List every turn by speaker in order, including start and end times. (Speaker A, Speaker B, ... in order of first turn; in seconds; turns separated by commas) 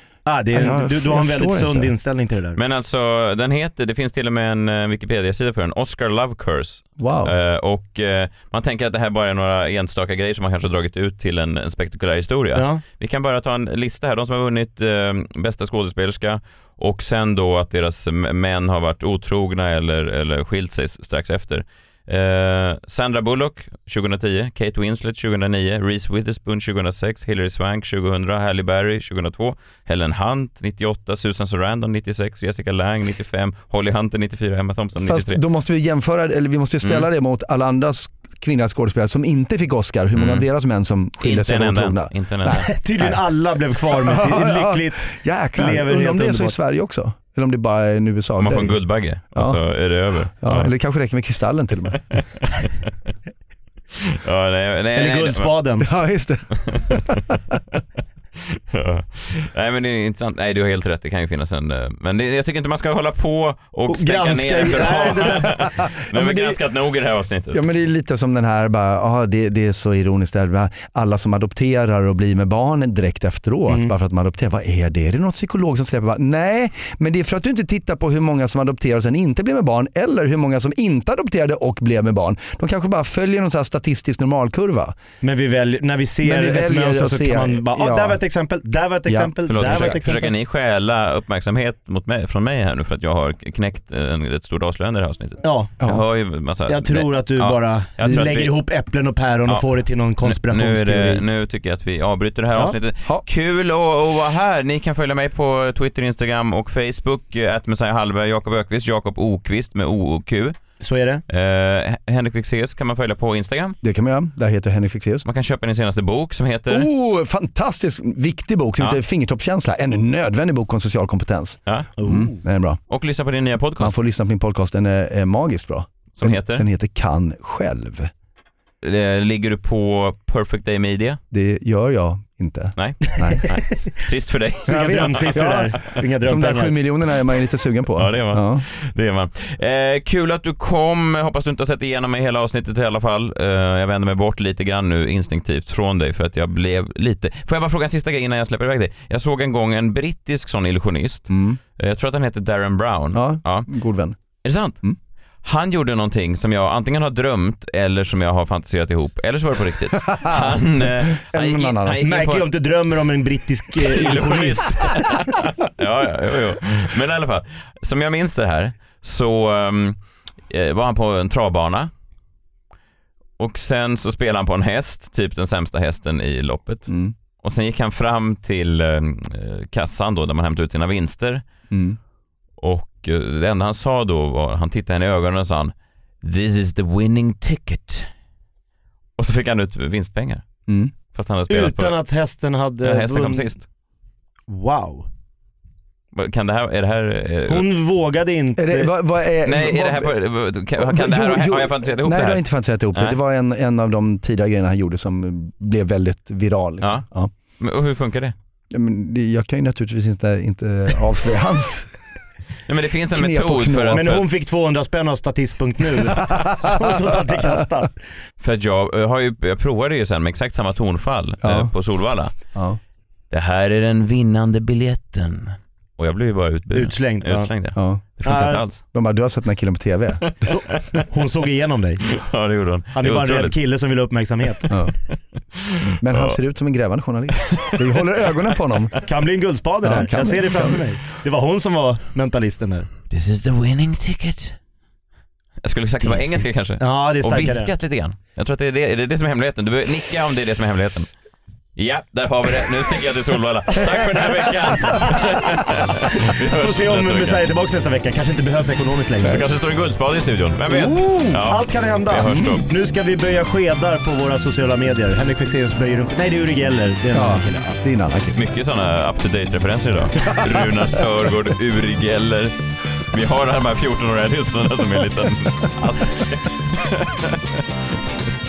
Speaker A: 0.3-2.6, Speaker B: 0.5-1.9, Speaker C: 2.6-35.4, Speaker B: 7.0-7.3, Speaker A: 12.6-12.8, Speaker B: 35.0-43.2, Speaker C: 36.8-37.1, Speaker C: 40.1-40.5, Speaker C: 41.2-42.7, Speaker A: 42.5-46.6, Speaker B: 43.9-48.8, Speaker C: 48.4-50.7, Speaker B: 49.3-49.6, Speaker B: 50.4-52.0, Speaker C: 54.1-55.5, Speaker A: 55.0-55.9, Speaker B: 55.8-57.5, Speaker C: 56.7-57.0, Speaker C: 58.5-67.6, Speaker A: 63.9-65.7, Speaker B: 65.2-66.6, Speaker B: 67.5-85.0, Speaker A: 85.2-90.3, Speaker B: 86.2-88.2, Speaker B: 89.1-90.0, Speaker C: 89.5-98.5, Speaker A: 95.4-95.7, Speaker A: 96.7-101.2, Speaker B: 98.0-98.3, Speaker C: 100.2-113.8, Speaker A: 110.8-111.2, Speaker B: 113.8-115.3, Speaker C: 115.2-116.9, Speaker B: 116.7-122.8, Speaker A: 122.0-122.4, Speaker C: 122.9-124.0, Speaker B: 123.8-128.1, Speaker C: 126.2-126.7, Speaker C: 128.8-131.2, Speaker B: 131.3-133.4, Speaker C: 132.8-136.0, Speaker B: 134.7-135.7, Speaker A: 134.7-136.8, Speaker B: 136.2-138.6, Speaker C: 138.0-153.7, Speaker B: 151.3-151.6, Speaker B: 153.1-154.2, Speaker C: 154.4-154.8, Speaker C: 155.4-162.5, Speaker B: 160.1-162.0, Speaker A: 162.0-165.1, Speaker C: 163.8-171.9, Speaker C: 173.4-181.4, Speaker B: 176.9-177.1, Speaker B: 181.7-182.0, Speaker C: 182.6-188.1, Speaker C: 189.2-190.4, Speaker B: 190.7-190.9, Speaker C: 191.1-192.0, Speaker A: 191.5-193.6, Speaker C: 192.8-193.7, Speaker A: 194.5-195.1, Speaker C: 196.1-197.7, Speaker A: 197.5-198.9, Speaker B: 198.6-200.1, Speaker C: 199.4-203.2, Speaker B: 200.8-207.3, Speaker C: 206.8-207.1, Speaker C: 207.6-208.3, Speaker B: 208.7-212.0, Speaker C: 212.7-214.3, Speaker B: 213.1-214.1, Speaker A: 213.9-218.0, Speaker B: 216.3-216.7, Speaker C: 218.4-222.5, Speaker B: 221.4-221.7, Speaker B: 222.3-222.8, Speaker C: 223.3-228.8, Speaker A: 226.7-227.5, Speaker B: 227.8-230.3, Speaker A: 228.3-228.6, Speaker C: 230.3-231.1, Speaker A: 231.1-232.1, Speaker C: 232.2-233.6, Speaker A: 232.9-234.7, Speaker B: 234.7-234.9, Speaker C: 235.8-236.4, Speaker B: 236.0-239.0, Speaker C: 237.5-237.9, Speaker A: 239.0-242.9, Speaker B: 239.8-240.8, Speaker C: 243.1-244.6, Speaker C: 245.6-251.1, Speaker A: 246.0-247.7, Speaker C: 251.8-257.4, Speaker A: 254.8-255.1, Speaker A: 256.1-259.4, Speaker C: 259.2-262.6, Speaker A: 260.7-267.8, Speaker B: 262.3-262.5, Speaker B: 267.1-268.4, Speaker C: 268.3-272.5, Speaker C: 273.1-277.6